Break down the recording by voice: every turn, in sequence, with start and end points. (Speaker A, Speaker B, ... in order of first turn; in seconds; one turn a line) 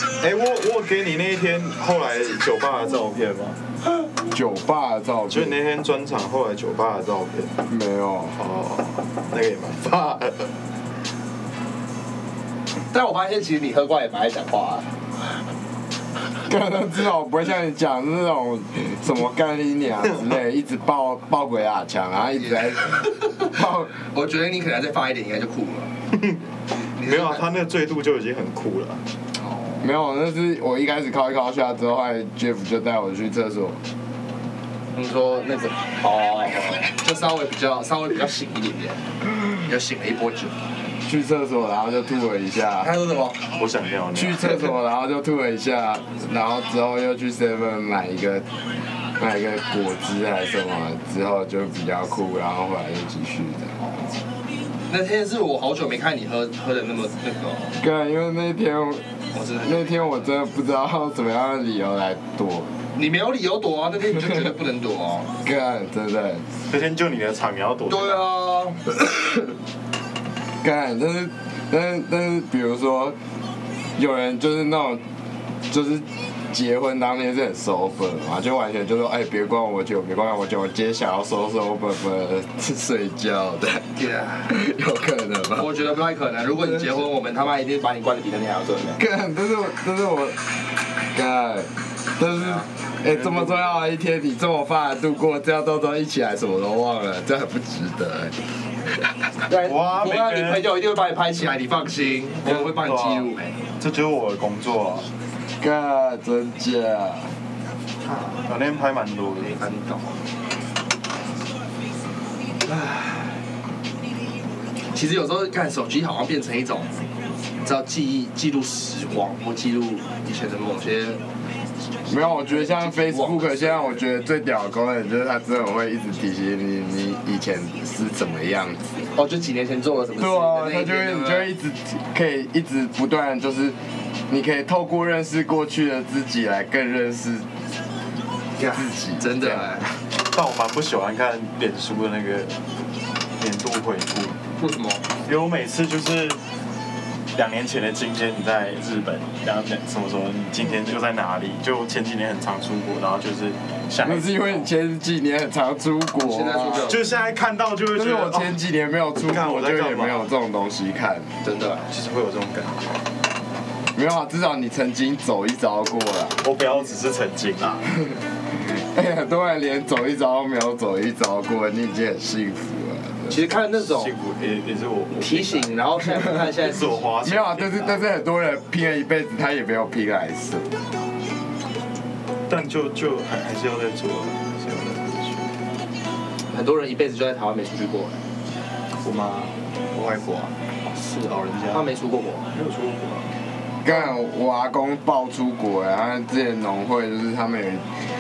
Speaker A: 0.1-3.6
Speaker B: 4.3-5.6
Speaker A: 5.3-7.5
Speaker B: 7.7-8.4
Speaker A: 8.3-10.4
Speaker C: 12.9-14.9
Speaker B: 16.5-23.9
Speaker C: 22.4-25.9
Speaker A: 26.1-26.4
Speaker C: 26.9-27.4
Speaker A: 27.0-29.0
Speaker C: 29.4-29.8
Speaker B: 29.8-33.8
Speaker C: 34.9-40.6
Speaker B: 41.0-42.9
Speaker C: 42.8-43.4
Speaker A: 43.6-44.7
Speaker B: 44.1-48.5
Speaker B: 49.2-53.7
Speaker C: 53.8-54.2
Speaker C: 54.9-57.7
Speaker B: 57.8-59.0
Speaker C: 59.3-60.4
Speaker B: 59.6-62.7
Speaker C: 63.0-65.3
Speaker B: 65.4-66.5
Speaker A: 66.7-68.3
Speaker C: 67.9-68.8
Speaker B: 70.6-73.2
Speaker B: 74.0-75.0
Speaker B: 75.7-83.9
Speaker C: 84.0-84.6
Speaker B: 84.5-85.9
Speaker C: 85.5-89.0
Speaker B: 86.6-87.0
Speaker B: 89.0-90.4
Speaker B: 91.1-98.4
Speaker C: 92.3-92.6
Speaker A: 93.0-93.9
Speaker C: 99.5-103.6
Speaker A: 99.6-100.7
Speaker A: 102.4-105.0
Speaker B: 105.6-107.3
Speaker C: 108.0-108.5
Speaker A: 108.5-109.6
Speaker C: 109.4-110.2
Speaker C: 112.6-113.4
Speaker C: 114.9-116.9
Speaker C: 117.6-121.2
Speaker B: 122.1-128.9
Speaker C: 122.2-124.0
Speaker C: 129.1-131.5
Speaker B: 130.2-133.8
Speaker B: 134.3-137.5
Speaker C: 138.6-139.9
Speaker B: 138.7-139.8
Speaker A: 140.3-142.6
Speaker A: 143.4-144.4
Speaker C: 144.6-145.0
Speaker A: 145.3-146.4
Speaker A: 147.4-154.7
Speaker B: 154.0-156.9
Speaker C: 156.2-157.1
Speaker A: 156.9-158.6
Speaker B: 157.9-161.3
Speaker A: 159.3-160.3
Speaker C: 161.4-161.9
Speaker A: 161.9-162.9
Speaker B: 163.9-166.4
Speaker A: 166.4-167.9
Speaker B: 168.7-173.4
Speaker C: 173.3-174.1
Speaker A: 173.8-178.1
Speaker C: 175.2-176.9
Speaker B: 177.2-180.7
Speaker A: 182.5-185.5
Speaker C: 186.5-188.2
Speaker A: 189.0-190.5
Speaker C: 190.9-192.5
Speaker A: 191.3-191.9
Speaker A: 192.5-193.3
Speaker B: 193.8-197.8